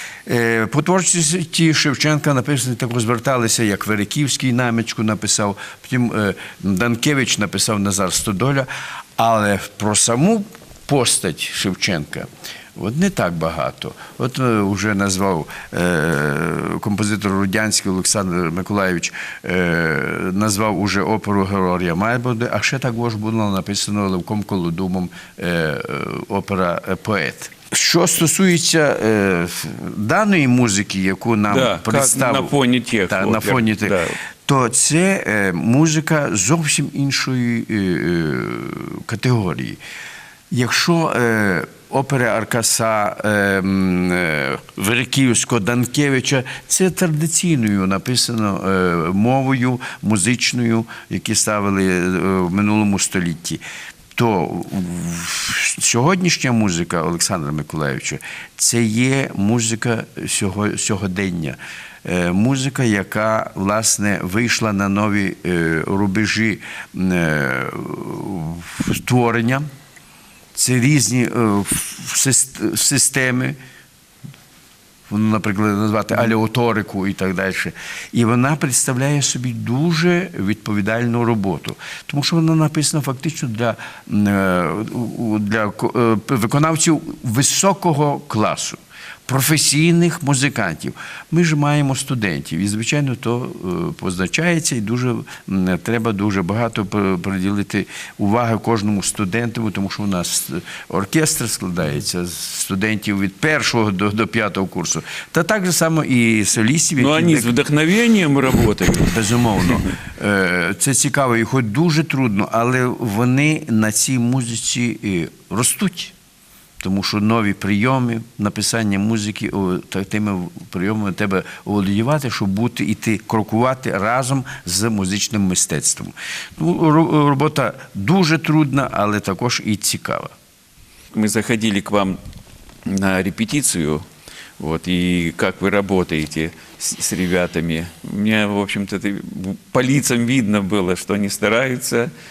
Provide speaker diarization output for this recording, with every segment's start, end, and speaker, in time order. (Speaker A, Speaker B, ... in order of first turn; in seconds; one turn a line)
Speaker A: 0.2-32.6
Speaker B: 31.5-34.1
Speaker A: 33.1-39.8
Speaker A: 40.5-53.6
Speaker A: 54.1-69.7
Speaker A: 70.5-73.6
Speaker A: 75.1-107.5
Speaker B: 107.0-109.8
Speaker A: 109.0-116.1
Speaker A: 116.8-130.3
Speaker B: 131.1-132.2
Speaker B: 132.8-134.0
Speaker B: 134.6-142.1